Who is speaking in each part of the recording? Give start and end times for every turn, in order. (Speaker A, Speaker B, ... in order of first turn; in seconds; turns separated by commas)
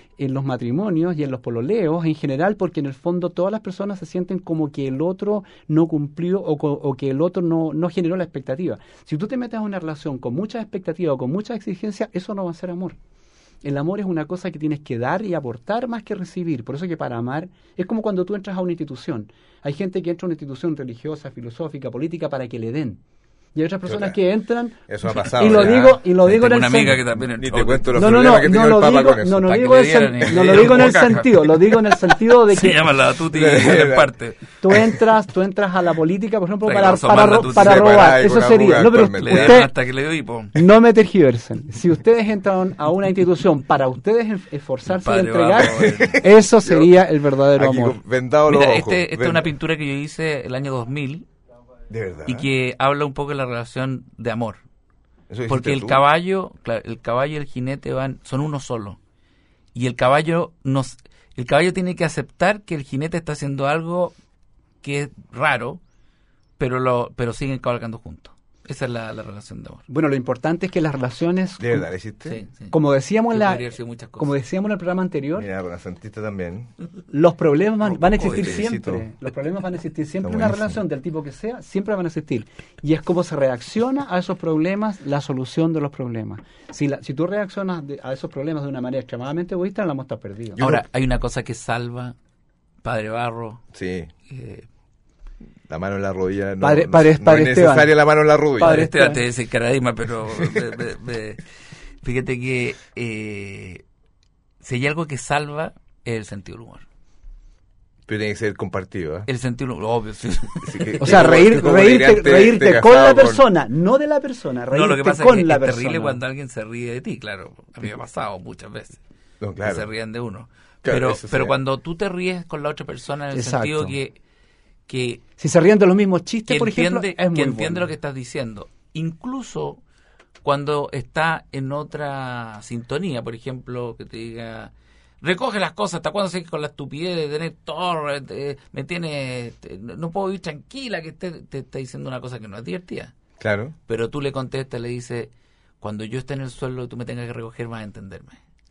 Speaker A: 0.2-13.0, Speaker A: 13.6-23.0, Speaker A: 23.6-27.0, Speaker B: 23.9-24.2, Speaker B: 24.9-26.0, Speaker C: 25.5-28.2, Speaker B: 27.4-29.6, Speaker A: 27.9-32.9, Speaker C: 29.5-31.5, Speaker B: 30.3-31.2, Speaker C: 32.5-34.5, Speaker B: 33.3-34.1, Speaker A: 34.6-39.7, Speaker C: 36.6-38.1, Speaker B: 37.3-39.7, Speaker C: 39.2-40.6, Speaker A: 40.5-48.0, Speaker C: 44.9-46.3, Speaker B: 45.6-46.9, Speaker B: 47.5-49.5, Speaker C: 48.5-51.3, Speaker B: 51.9-52.5, Speaker C: 52.3-54.6, Speaker B: 55.3-56.0, Speaker C: 55.5-59.0, Speaker C: 59.8-64.2, Speaker C: 64.8-65.8, Speaker C: 66.6-69.8, Speaker A: 69.9-71.9, Speaker B: 71.6-72.4, Speaker C: 72.3-72.8, Speaker A: 72.7-73.7, Speaker C: 73.3-74.3, Speaker A: 74.2-75.5, Speaker B: 75.4-76.7, Speaker A: 77.1-90.6, Speaker B: 77.9-79.1, Speaker C: 78.2-78.6, Speaker B: 80.2-80.8, Speaker B: 90.5-90.8, Speaker C: 90.6-92.2, Speaker C: 92.8-93.6, Speaker B: 93.7-94.1, Speaker C: 94.3-94.7, Speaker B: 95.7-98.9, Speaker A: 96.6-97.9, Speaker A: 98.6-99.2, Speaker C: 98.6-101.4, Speaker C: 102.0-103.8, Speaker C: 104.6-106.8, Speaker B: 108.1-109.3, Speaker C: 109.3-111.4, Speaker B: 110.6-113.4, Speaker A: 111.0-116.2, Speaker C: 114.7-119.0, Speaker B: 119.4-119.9, Speaker C: 119.6-124.2, Speaker B: 120.8-121.5, Speaker A: 123.3-123.9, Speaker C: 124.9-125.2, Speaker A: 125.4-127.9, Speaker C: 126.5-129.8, Speaker C: 130.4-143.2, Speaker B: 143.4-143.8, Speaker C: 143.9-148.4